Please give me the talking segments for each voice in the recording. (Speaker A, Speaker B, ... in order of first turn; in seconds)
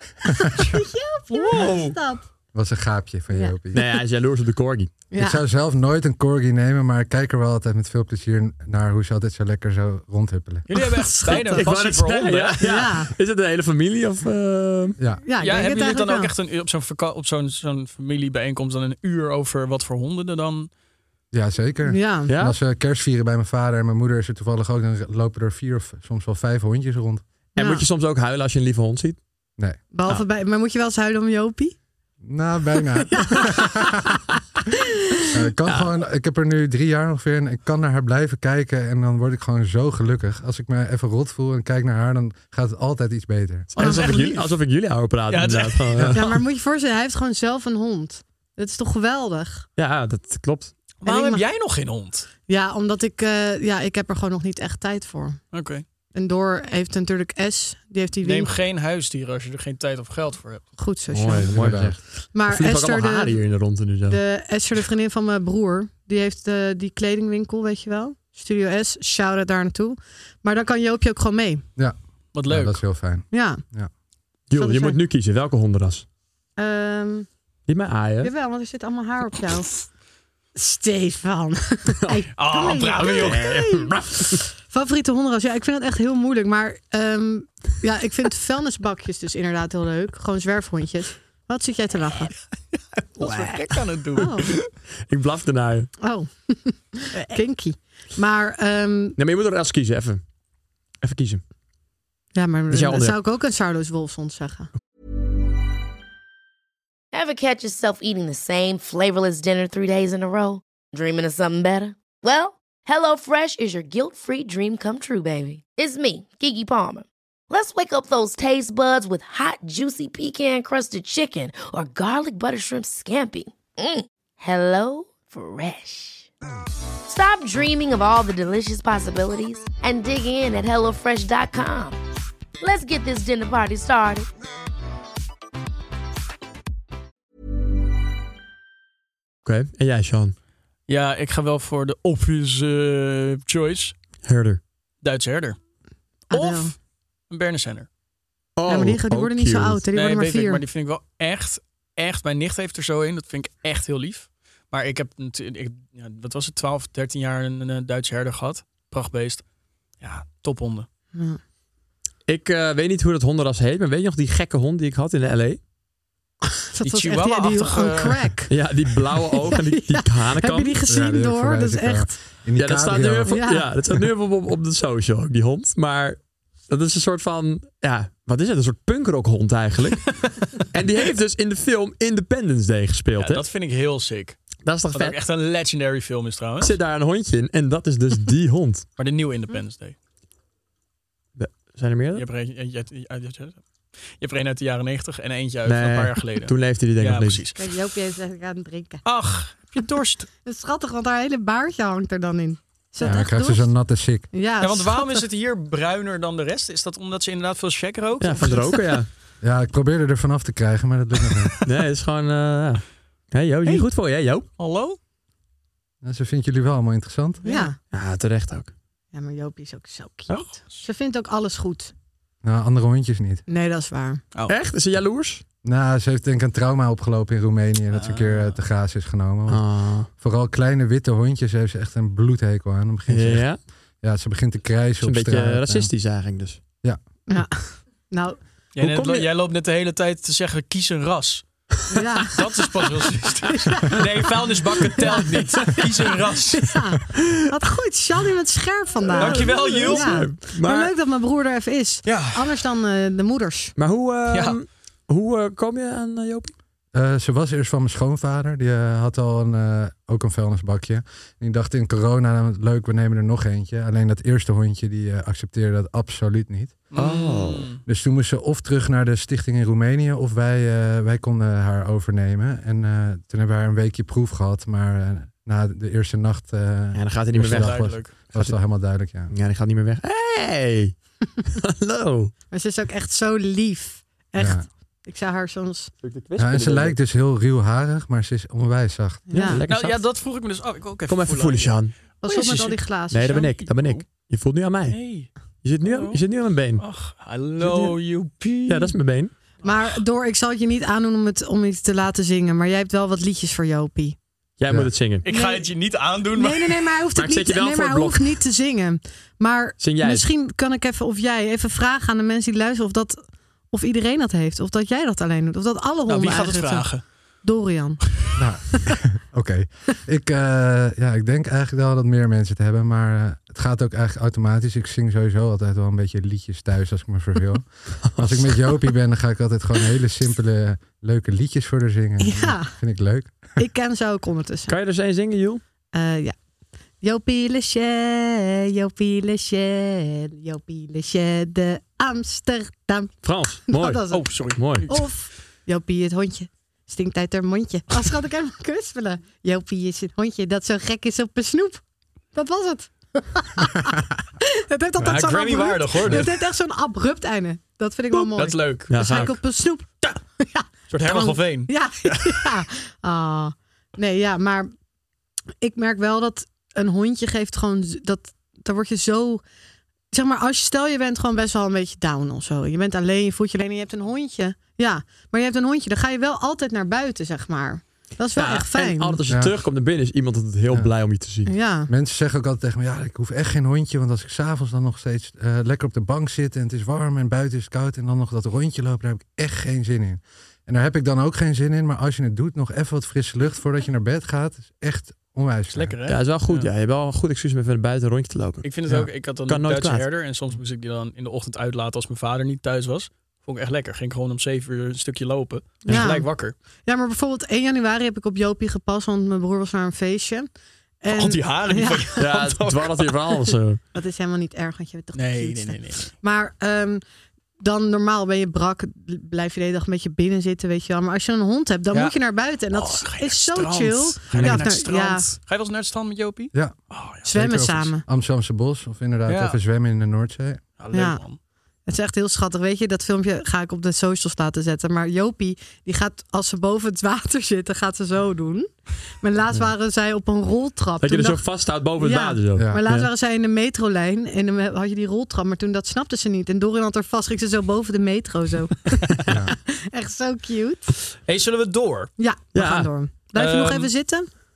Speaker A: 0.2-0.6, 2.5-3.8, 5.1-10.7, 15.0-15.2, 21.3-27.2, 32.2-34.1, 35.3-43.8, 61.3-62.0, 71.8-73.9, 170.9-174.0, 203.0-204.3, 209.4-211.5, 216.0-217.4, 222.4-223.4, 225.6-235.9, 256.9-266.8, 267.9-279.3, 284.4-284.7, 286.4-289.4, 318.4-333.6, 379.3-379.6, 381.9-395.9, 426.5-430.6, 449.3-449.5
Speaker B: 0.4-2.2, 3.3-3.6, 5.1-5.4, 10.7-11.7, 12.6-13.1, 15.2-16.3, 21.9-22.3, 27.6-27.9, 29.9-31.8, 33.1-33.9, 46.1-49.7, 51.0-51.4, 52.5-55.4, 56.1-58.5, 60.8-61.5, 62.3-63.6, 64.1-71.6, 73.3-73.6, 74.5-75.0, 76.6-77.3, 78.2-79.8, 80.5-92.3, 94.2-94.5, 96.0-99.2, 102.3-104.7, 146.3-146.7, 148.7-150.6, 166.5-168.5, 169.2-172.2, 173.3-173.7, 197.6-199.0, 200.4-203.7, 204.3-205.2, 217.4-217.8, 219.1-221.9, 223.5-224.2, 237.3-238.4, 241.9-242.4, 243.6-244.0, 245.0-245.3, 246.5-253.7, 282.5-285.9, 289.3-289.6, 292.2-293.5, 299.6-304.2, 305.2-313.2, 313.7-318.1, 332.2-332.8, 333.6-334.7, 335.9-336.4, 337.0-351.8, 352.3-364.7, 365.6-369.4, 370.1-379.2, 381.4-381.9, 405.9-410.5, 411.0-412.1, 413.9-417.0, 417.6-425.2, 427.2-428.0, 430.9-431.2, 431.9-441.4, 442.0-450.9, 452.2-454.3
Speaker C: 1.3-2.0, 10.7-12.6, 15.4-20.7, 43.8-44.5, 45.3-46.1, 51.0-52.3, 55.5-55.8, 58.2-60.6, 72.3-72.8, 82.4-83.6, 93.2-94.7, 140.9-143.9, 145.0-145.6, 146.3-146.8, 147.3-147.9, 149.9-159.4, 160.0-160.9, 166.8-168.2, 183.2-184.4, 184.9-186.8, 189.0-189.9, 192.1-197.6, 199.0-200.3, 204.6-208.9, 214.6-215.0, 217.4-217.7, 220.3-220.8, 227.9-228.6, 238.8-241.7, 242.3-246.8, 249.2-250.3, 252.0-252.5, 254.3-254.6, 266.9-267.8, 277.4-278.1, 289.7-292.8, 293.3-294.0, 294.9-296.2, 296.8-298.9, 305.2-306.8, 316.1-317.0, 344.1-345.0, 355.0-356.3, 358.1-359.1, 360.9-362.4, 395.7-396.7, 398.6-406.5, 411.1-413.1, 415.1-416.1, 422.7-427.2, 429.2-429.6, 430.8-431.4, 451.2-452.1, 453.3-453.9
Speaker D: 3.7-4.9, 11.3-15.0, 22.3-22.6, 27.6-29.2, 35.6-35.9, 43.7-46.4, 49.8-50.7, 61.1-64.2, 74.5-76.0, 77.7-78.3, 83.0-84.4, 93.2-94.2, 95.1-95.9, 99.2-100.2, 101.0-101.4, 102.7-103.2, 139.4-140.3, 144.2-144.6, 148.6-149.8, 162.3-165.6, 168.5-170.8, 172.6-183.4, 184.6-185.2, 186.6-188.8, 191.3-192.2, 195.6-197.4, 208.2-209.1, 211.6-214.5, 217.9-218.7, 224.5-225.4, 229.5-230.1, 233.1-233.6, 235.0-236.6, 238.8-239.3, 249.1-250.9, 253.8-256.5, 266.9-267.7, 276.9-278.6, 279.3-280.9, 281.5-282.3, 286.0-287.0, 289.3-290.0, 291.1-291.9, 293.1-296.8, 297.6-297.9, 298.7-299.3, 304.6-305.2, 307.1-308.4, 309.8-310.3, 328.1-328.5, 334.7-335.6, 343.2-344.9, 358.9-359.3, 378.4-381.5, 396.1-400.1, 405.9-406.2, 412.2-413.8, 424.3-424.6, 441.0-443.1, 452.5-452.9
Speaker E: 107.1-126.3, 127.0-132.0, 132.6-134.3